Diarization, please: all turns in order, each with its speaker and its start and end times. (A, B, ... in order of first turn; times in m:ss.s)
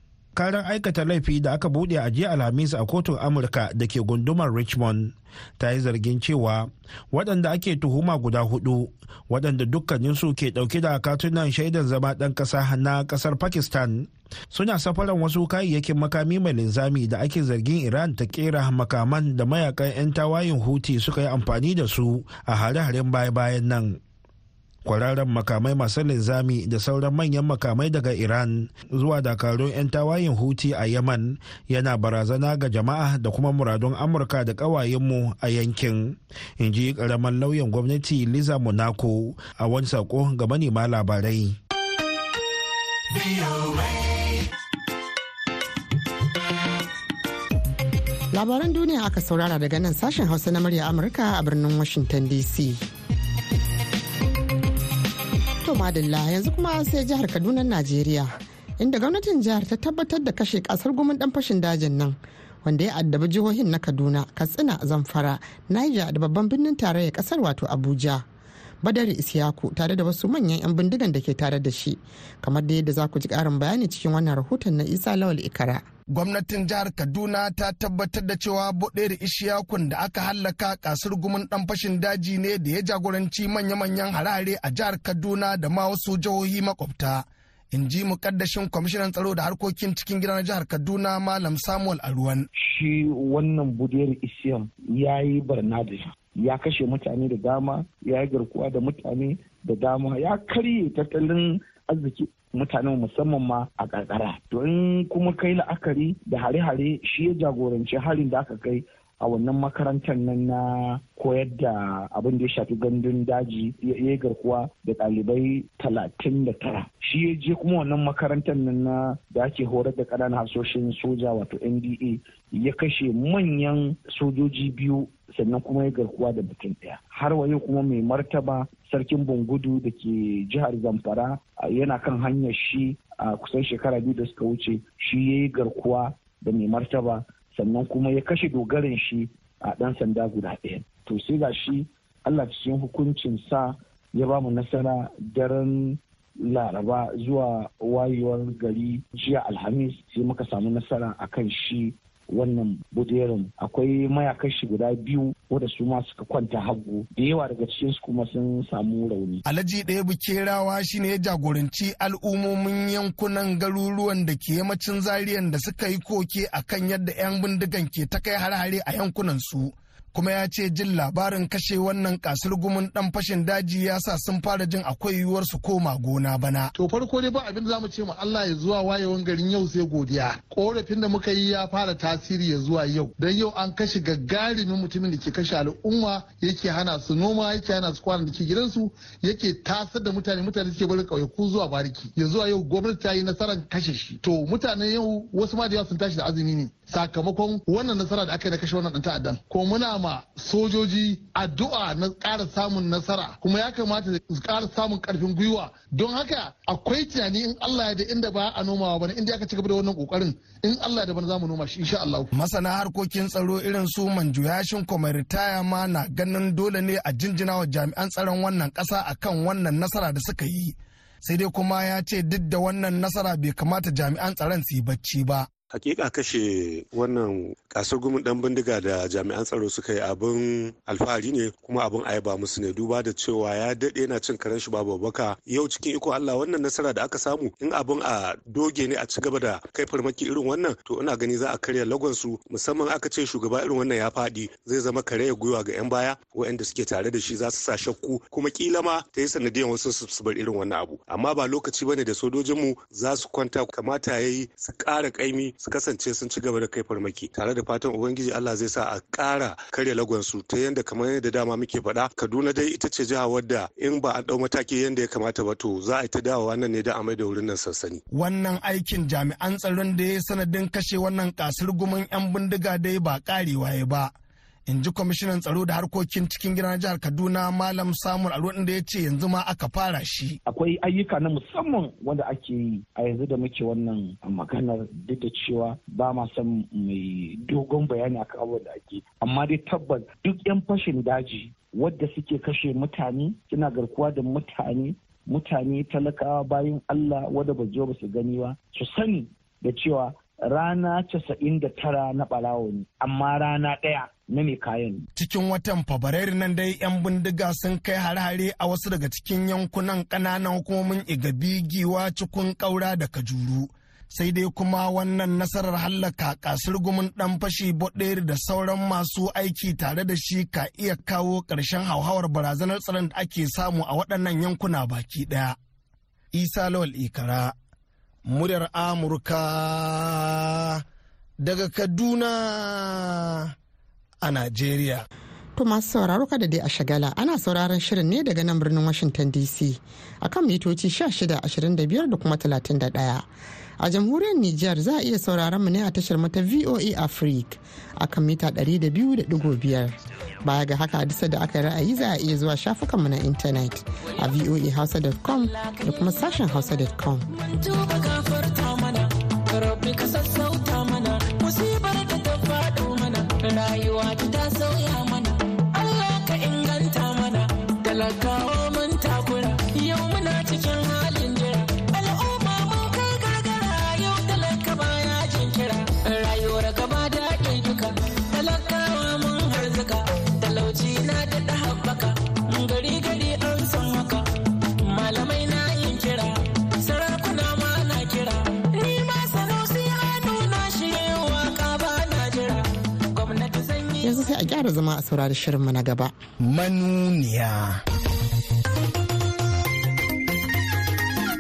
0:00.4-0:24.0 A
0:24.8-0:41.6 A
0:48.3-0:52.8 B
0:55.6-1:08.2 B
1:08.8-1:15.8 B
1:16.1-1:32.5 C
1:32.6-2:39.4 D
2:39.5-2:56.7 C
2:56.7-3:32.3 E
3:32.3-3:45.5 C
3:45.7-4:28.0 F
4:28.1-4:34.1 C
4:34.7-4:40.4 C
4:40.5-5:05.1 D
5:05.2-5:25.6 C
5:26.3-5:27.5 C
5:28.3-5:30.8 C
5:31.4-5:33.5 C
5:34.2-5:35.1 C
5:35.6-5:43.3 B
5:43.8-5:57.2 B
5:54.2-5:54.5 G
5:55.3-5:56.5 G
5:57.3-6:24.2 G
6:24.8-6:34.3 G
6:34.0-6:36.1 B
6:36.4-6:37.8 C